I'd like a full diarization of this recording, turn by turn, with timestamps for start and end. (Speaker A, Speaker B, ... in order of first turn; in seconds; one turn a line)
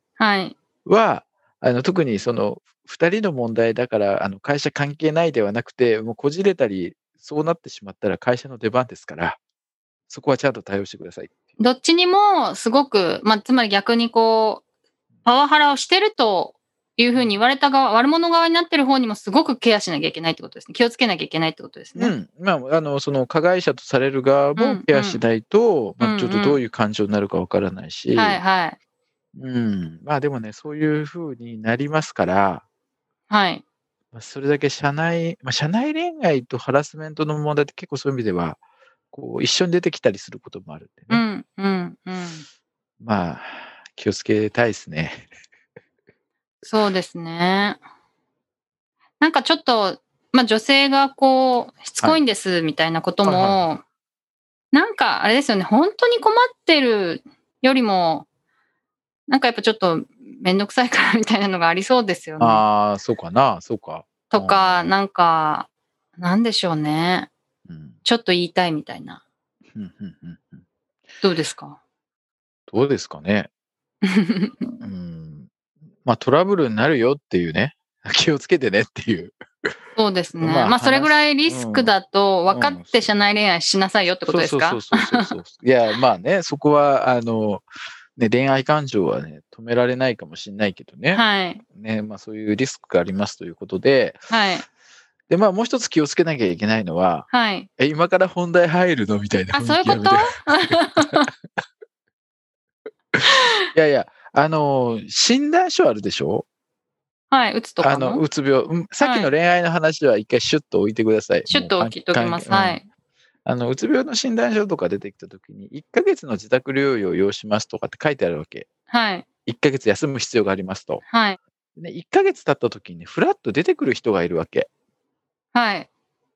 Speaker A: 0.2-0.5
Speaker B: 0.8-9.4
Speaker B: 10.1-11.3
Speaker A: 11.6-14.6
Speaker A: 15.2-22.1
Speaker B: 21.9-28.4
Speaker A: 24.6-25.2
Speaker A: 26.0-26.6
Speaker A: 28.1-28.8
Speaker B: 29.3-32.6
Speaker A: 33.3-33.6
Speaker B: 34.1-38.6
Speaker B: 39.1-41.2
Speaker A: 41.1-42.4
Speaker B: 43.0-45.3
Speaker A: 46.6-47.8
Speaker A: 49.2-53.8
Speaker B: 53.2-53.6
Speaker A: 54.7-58.2
Speaker A: 59.3-62.6
Speaker B: 62.4-64.9
Speaker A: 64.3-67.3
Speaker B: 67.7-68.0
Speaker A: 68.0-69.2
Speaker B: 69.7-70.6
Speaker A: 71.2-71.8
Speaker B: 72.7-73.5
Speaker A: 74.0-74.8
Speaker B: 74.8-75.5
Speaker B: 76.0-79.3
Speaker A: 80.0-85.3
Speaker B: 80.4-81.9
Speaker B: 82.5-83.0
Speaker B: 84.3-94.3
Speaker A: 91.1-91.6
Speaker A: 94.3-94.6
Speaker B: 95.3-101.2
Speaker A: 97.3-97.7
Speaker A: 99.5-101.3
Speaker B: 103.7-106.5
Speaker A: 107.3-108.2
Speaker B: 107.8-112.8
Speaker A: 109.0-109.3
Speaker A: 111.5-112.8
Speaker B: 113.5-118.7
Speaker A: 118.9-119.2
Speaker B: 119.5-121.0
Speaker A: 121.1-121.4
Speaker B: 121.8-124.7
Speaker A: 125.5-125.9